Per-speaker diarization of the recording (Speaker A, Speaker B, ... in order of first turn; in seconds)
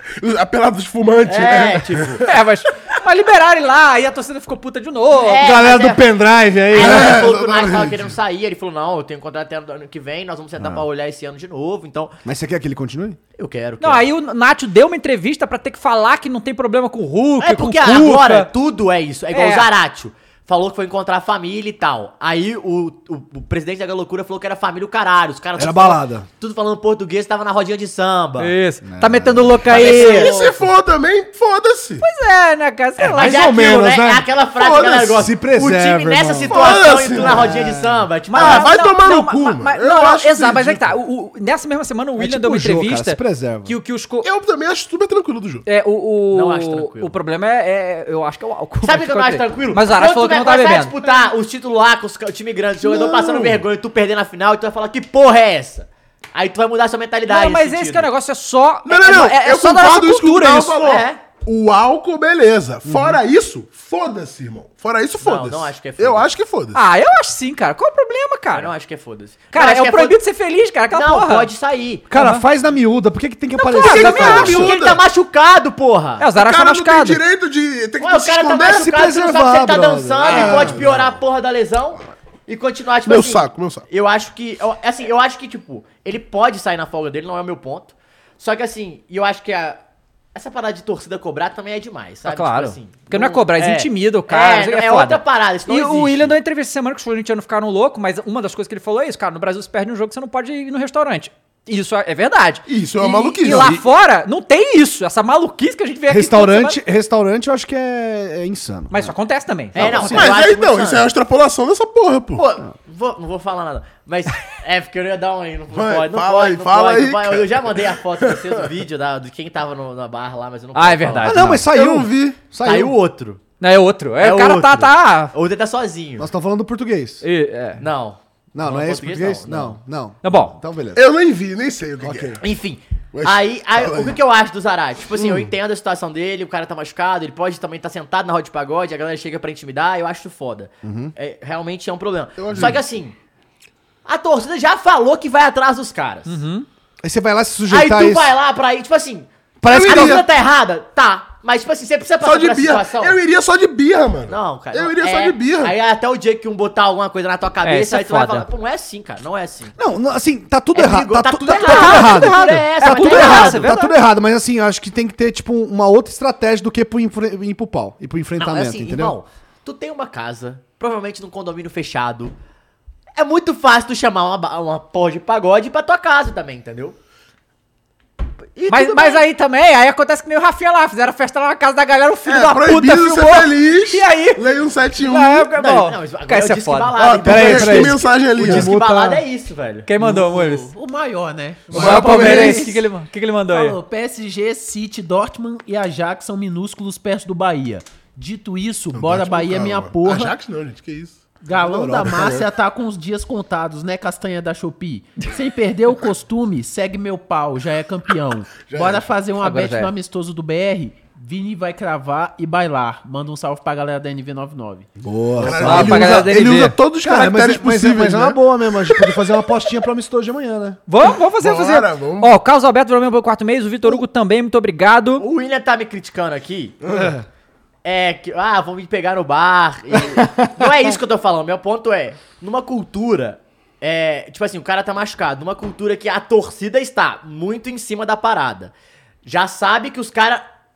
Speaker A: 0.2-2.2, 6.8-8.1, 29.7-32.0, 34.6-35.2, 36.5-37.5, 38.4-41.0, 44.2-45.6, 52.8-53.6, 58.9-66.8, 73.8-75.0, 76.3-78.9, 80.2-81.0, 83.1-83.9, 102.7-103.8, 109.8-112.4, 115.7-118.5, 121.6-122.4, 130.9-132.4, 133.2-134.2, 135.2-135.5, 142.4-142.8, 149.7-150.2, 152.2-155.7, 182.2-185.5, 187.0-188.7, 190.0-190.7, 191.7-192.7, 198.9-202.4, 208.7-209.1, 215.4-219.2, 221.0-222.3, 226.8-227.1
Speaker B: 1.2-2.3, 5.1-6.1, 6.7-12.2, 13.4-14.1, 17.4-28.5, 29.7-30.5, 33.1-38.7, 46.3-47.1, 48.8-58.1, 60.8-61.2, 65.2-66.3, 68.5-70.2, 70.9-72.1, 73.9-76.3, 78.0-89.8, 90.3-96.3, 109.8-111.1, 112.4-121.4, 122.6-123.4, 124.2-126.3, 127.8-129.8, 132.4-143.2, 144.1-146.4, 147.7-153.2, 154.3-159.8, 160.7-163.7, 168.4-172.3, 173.2-177.0, 178.6-179.2, 185.6-189.9, 225.2-226.8, 227.8-238.7, 239.2-240.4
Speaker C: 2.2-5.4, 13.8-18.5, 19.3-19.7, 28.4-30.3, 32.0-33.4, 38.3-44.3, 45.6-51.0, 57.3-60.8, 66.7-68.7, 69.5-71.5, 72.1-72.5, 73.6-74.7, 76.2-77.2, 92.3-106.8, 108.9-110.3, 120.8-121.7, 123.6-125.3, 127.2-127.8, 130.2-130.6, 146.3-146.7, 157.7-158.5, 161.5-163.9, 178.7-186.9, 189.9-190.7, 191.7-193.8, 209.4-209.9, 215.5-216.8, 220.9-225.2
Speaker D: 5.4-7.3, 10.6-10.8, 12.2-13.2, 25.6-26.3, 28.8-30.0, 33.0-38.1, 42.2-43.8, 62.9-63.2, 72.1-74.6, 78.6-80.8, 103.5-103.8, 106.1-109.1, 109.8-110.2, 121.2-123.0, 126.2-127.2, 128.5-131.0, 132.0-132.4, 140.8-141.1, 147.0-148.3, 149.6-150.2, 159.8-169.2, 187.2-189.2, 192.1-192.4, 201.6-202.3, 215.0-216.4, 217.0-220.8, 226.9-227.2
Speaker E: 190.7-192.8, 193.5-200.3, 201.4-214.9